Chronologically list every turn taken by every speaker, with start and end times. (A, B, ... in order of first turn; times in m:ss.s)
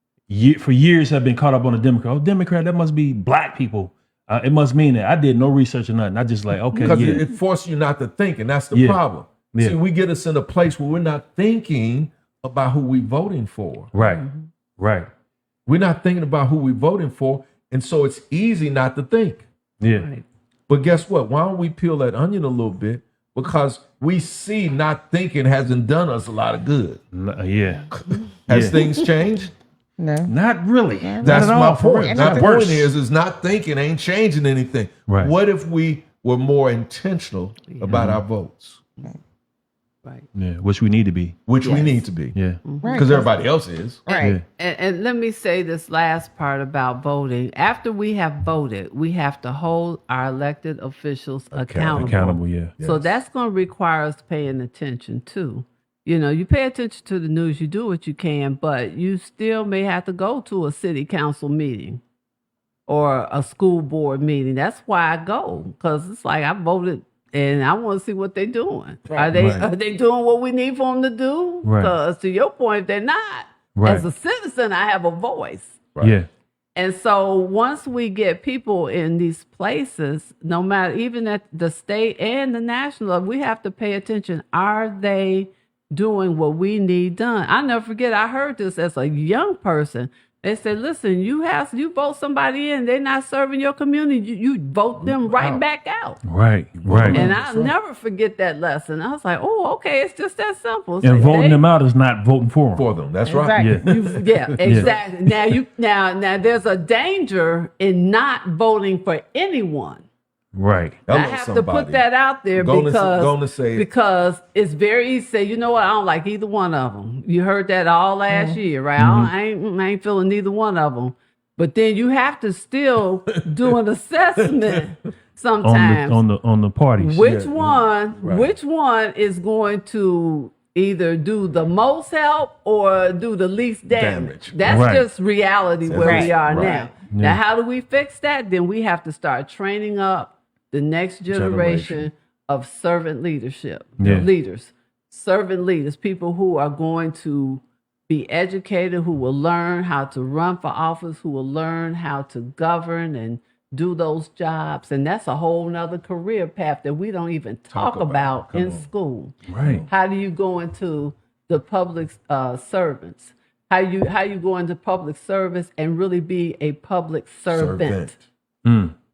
0:00.3-0:07.2 A
0:06.7-0:07.2 B
0:06.8-0:13.9 C
0:08.7-0:09.8 A
0:13.9-0:14.2 A
0:14.0-0:14.4 B
0:14.8-0:15.1 A
0:15.6-0:19.4 C
0:19.8-0:20.1 A
0:20.0-0:20.2 B
0:20.7-0:27.0 C
0:27.1-0:27.9 A
0:27.9-0:29.5 C
0:28.5-0:28.8 A
0:30.0-0:30.3 D
0:30.3-0:32.9 A
0:31.0-0:32.8 D
0:31.2-0:38.8 C
0:35.1-0:35.3 A
0:37.7-0:38.1 B
0:37.9-0:38.2 A
0:40.3-0:41.4 A
0:41.4-0:44.0 C
0:41.6-0:42.0 D
0:42.3-0:42.6 A
0:42.6-0:43.1 B
0:42.8-0:43.3 D
0:44.0-0:44.4 D
0:44.1-1:02.0 B
0:44.1-0:44.4 A
0:51.5-0:53.2 C
0:51.9-0:52.8 A
1:02.9-1:15.9 B
1:09.3-1:09.7 A
1:11.6-1:11.9 A
1:13.8-1:14.0 A
1:16.0-1:16.3 A
1:16.8-1:36.2 B
1:35.0-1:35.6 C
1:36.2-1:37.3 A
1:36.8-1:37.7 C
1:37.1-1:41.6 B
1:41.0-1:42.8 A
1:42.7-1:45.0 C
1:43.2-1:43.8 D
1:43.6-1:43.9 A
1:43.8-1:50.0 B
1:44.6-1:44.9 A
1:50.5-1:51.0 A
1:51.0-1:53.9 C
1:51.0-2:06.2 B
1:58.3-1:58.6 D
1:59.0-1:59.3 A
2:03.3-2:03.7 C
2:05.6-2:07.4 A
2:07.0-2:39.3 B
2:07.2-2:08.5 C
2:13.9-2:14.8 C
2:14.6-2:15.0 A
2:15.8-2:16.9 C
2:15.9-2:16.3 D
2:17.1-2:17.4 A
2:21.3-2:22.0 C
2:24.0-2:24.3 A
2:37.7-2:38.9 C
2:39.5-2:39.8 A
2:39.8-2:48.2 B
2:47.5-2:48.2 C
2:48.6-2:48.9 A